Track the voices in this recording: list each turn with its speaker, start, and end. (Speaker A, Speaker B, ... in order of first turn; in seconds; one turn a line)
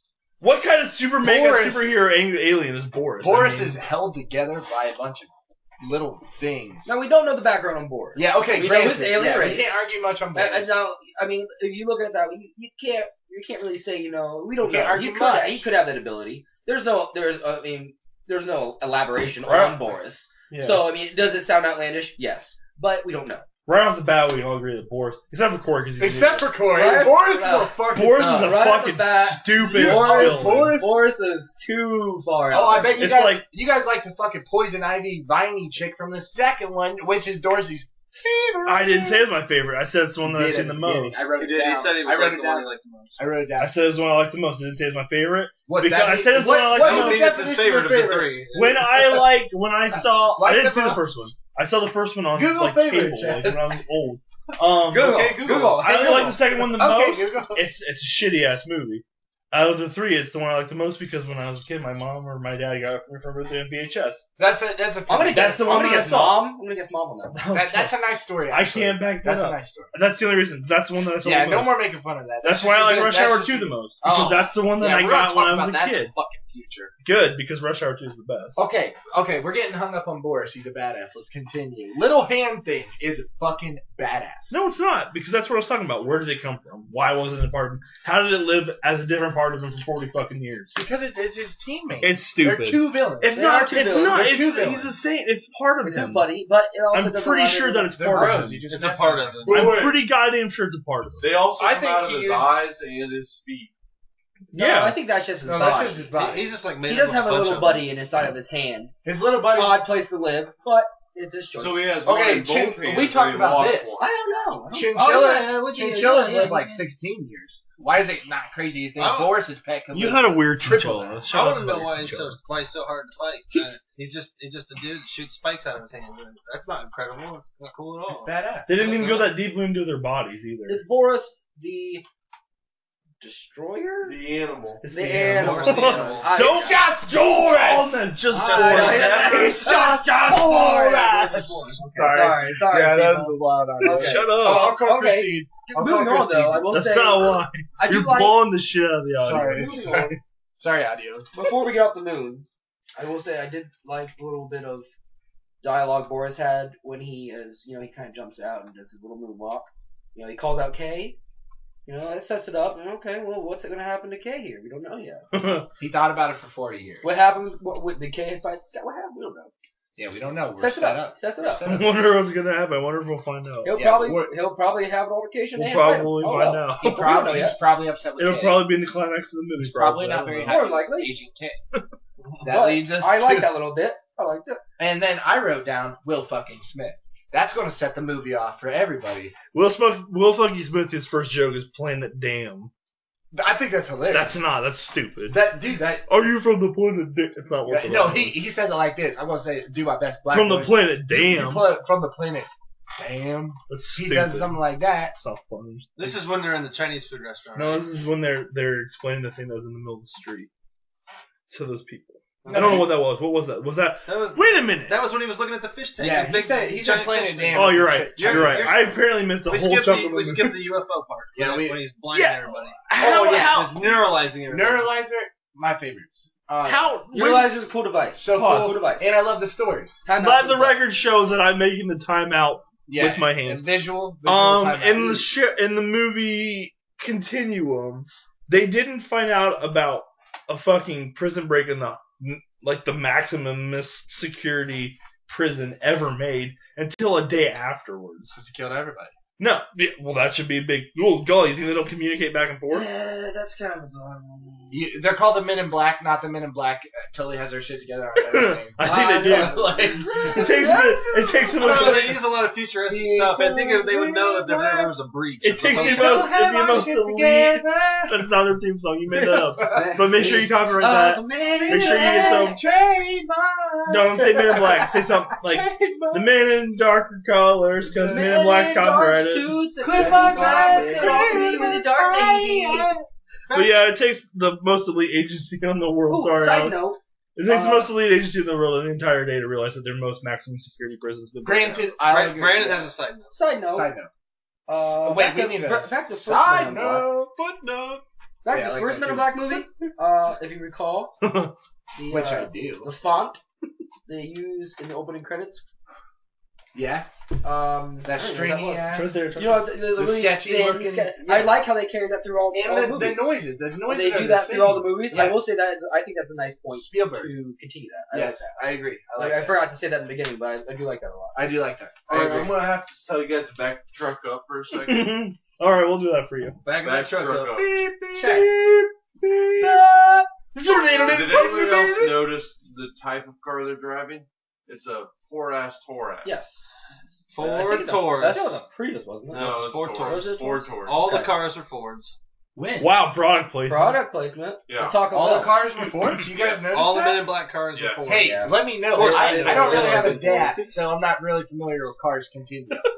Speaker A: 0.4-3.8
Speaker B: 1.2-2.0
Speaker B: 3.2-6.9
Speaker C: 6.8-23.4
Speaker B: 8.1-10.8
Speaker B: 14.6-15.7
Speaker A: 19.4-19.8
Speaker A: 20.5-20.8
Speaker A: 23.7-26.5
Speaker B: 26.0-28.6
Speaker C: 26.7-27.7
Speaker A: 27.9-30.7
Speaker C: 28.2-33.1
Speaker B: 29.6-31.0
Speaker B: 32.5-39.3
Speaker A: 32.9-33.4
Speaker A: 38.6-41.2
Speaker B: 40.2-43.8
Speaker D: 41.4-43.2
Speaker A: 43.6-47.3
Speaker B: 45.7-48.5
Speaker D: 46.6-48.9
Speaker A: 48.5-64.2
Speaker B: 49.9-51.3
Speaker B: 52.3-53.6
Speaker C: 54.9-56.4
Speaker D: 54.9-55.8
Speaker B: 56.4-57.6
Speaker B: 64.4-66.3
Speaker C: 65.1-67.4
Speaker A: 65.3-66.4
Speaker A: 67.3-71.8
Speaker B: 67.5-69.9
Speaker B: 71.2-76.9
Speaker A: 72.4-76.1
Speaker A: 77.0-78.6
Speaker B: 78.5-84.5
Speaker A: 84.5-90.8
Speaker B: 90.8-95.0
Speaker A: 92.0-96.3
Speaker C: 93.3-94.5
Speaker C: 95.8-98.4
Speaker A: 96.9-98.7
Speaker B: 97.9-99.8
Speaker D: 98.7-99.8
Speaker E: 99.4-100.0
Speaker A: 99.5-101.2
Speaker E: 101.2-103.7
Speaker B: 101.6-102.5
Speaker A: 104.5-105.0
Speaker C: 104.5-106.1
Speaker B: 105.4-106.5
Speaker D: 106.1-108.0
Speaker C: 106.8-111.8
Speaker B: 109.0-109.8
Speaker E: 111.6-114.0
Speaker B: 112.0-114.0
Speaker C: 114.0-116.8
Speaker B: 114.7-121.2
Speaker D: 119.0-119.4
Speaker A: 119.9-122.4
Speaker D: 121.3-128.3
Speaker B: 128.1-129.3
Speaker A: 128.7-130.8
Speaker C: 130.7-132.0
Speaker C: 133.2-134.2
Speaker E: 134.0-134.8
Speaker A: 134.8-142.5
Speaker C: 134.9-136.8
Speaker D: 135.3-136.5
Speaker E: 135.7-136.2
Speaker B: 136.4-138.1
Speaker C: 138.3-148.5
Speaker D: 138.3-139.4
Speaker B: 139.2-146.7
Speaker A: 143.8-144.8
Speaker A: 146.7-149.9
Speaker B: 149.2-151.3
Speaker C: 149.3-150.2
Speaker C: 151.3-154.9
Speaker C: 155.6-161.2
Speaker C: 161.8-165.3
Speaker A: 165.3-165.7
Speaker B: 165.8-167.1
Speaker C: 167.0-169.5
Speaker B: 169.9-172.0
Speaker C: 170.6-171.6
Speaker A: 171.7-173.8
Speaker C: 173.6-177.6
Speaker B: 173.7-174.3
Speaker A: 175.5-177.1
Speaker B: 176.8-178.8
Speaker A: 178.2-180.6
Speaker B: 179.6-181.6
Speaker C: 180.5-181.1
Speaker B: 182.4-183.5
Speaker C: 182.4-184.6
Speaker B: 184.8-189.3
Speaker A: 189.5-192.7
Speaker B: 193.3-194.4
Speaker A: 194.1-198.4
Speaker B: 195.3-196.2
Speaker B: 197.7-205.2
Speaker A: 200.3-201.7
Speaker A: 203.7-205.9
Speaker D: 205.9-207.8
Speaker A: 207.5-210.5
Speaker A: 211.5-215.0
Speaker D: 212.4-212.9
Speaker B: 212.5-212.9
Speaker D: 214.1-224.9
Speaker B: 216.0-219.0
Speaker A: 217.5-220.6
Speaker B: 221.3-221.8
Speaker A: 222.1-223.4
Speaker B: 222.9-226.9
Speaker C: 226.6-229.2
Speaker A: 226.6-227.7
Speaker B: 228.1-230.0
Speaker A: 228.3-228.7
Speaker C: 230.0-230.8
Speaker A: 230.2-233.7
Speaker B: 232.9-235.3
Speaker A: 234.2-248.3
Speaker B: 248.3-249.1
Speaker A: 249.4-252.9
Speaker C: 252.7-254.8
Speaker B: 254.7-262.0
Speaker A: 258.2-262.2
Speaker C: 258.8-261.2
Speaker D: 261.6-266.3
Speaker B: 262.9-264.9
Speaker A: 265.4-272.6
Speaker B: 265.7-268.3
Speaker C: 269.1-272.6
Speaker B: 271.6-276.5
Speaker A: 273.9-281.5
Speaker C: 274.5-274.8
Speaker B: 277.9-278.3
Speaker C: 278.0-282.9
Speaker B: 279.8-283.1
Speaker D: 283.5-283.9
Speaker A: 283.5-286.8
Speaker C: 286.1-287.9
Speaker A: 287.4-291.9
Speaker B: 291.4-292.9
Speaker D: 292.0-293.4
Speaker C: 293.3-293.9
Speaker B: 293.7-294.1
Speaker C: 294.7-297.1
Speaker B: 294.8-297.3
Speaker D: 297.3-298.0
Speaker C: 298.4-301.1
Speaker B: 298.5-299.6
Speaker A: 301.2-301.5
Speaker C: 301.9-303.4
Speaker B: 302.1-302.9
Speaker C: 304.1-305.6
Speaker B: 306.7-307.1
Speaker C: 307.4-313.3
Speaker B: 308.0-309.1
Speaker A: 308.9-309.8
Speaker B: 309.9-311.6
Speaker B: 312.5-315.4
Speaker C: 313.9-318.5
Speaker B: 316.7-317.3
Speaker B: 318.1-319.6
Speaker C: 319.2-321.6
Speaker B: 321.3-322.5
Speaker E: 322.1-325.1
Speaker A: 324.8-326.6
Speaker D: 326.6-328.4
Speaker E: 326.8-327.8
Speaker B: 328.1-329.9
Speaker A: 328.2-328.7
Speaker A: 329.6-332.1
Speaker B: 330.6-332.1
Speaker E: 331.1-336.4
Speaker C: 336.2-341.3
Speaker D: 337.3-338.6
Speaker D: 339.3-342.1
Speaker E: 339.3-341.0
Speaker B: 342.5-342.9
Speaker A: 342.8-344.0
Speaker C: 343.7-345.6
Speaker E: 344.7-345.0
Speaker B: 345.1-347.4
Speaker A: 345.8-346.2
Speaker D: 346.4-350.2
Speaker E: 347.7-348.0
Speaker B: 348.1-352.9
Speaker C: 348.1-350.7
Speaker A: 349.0-350.0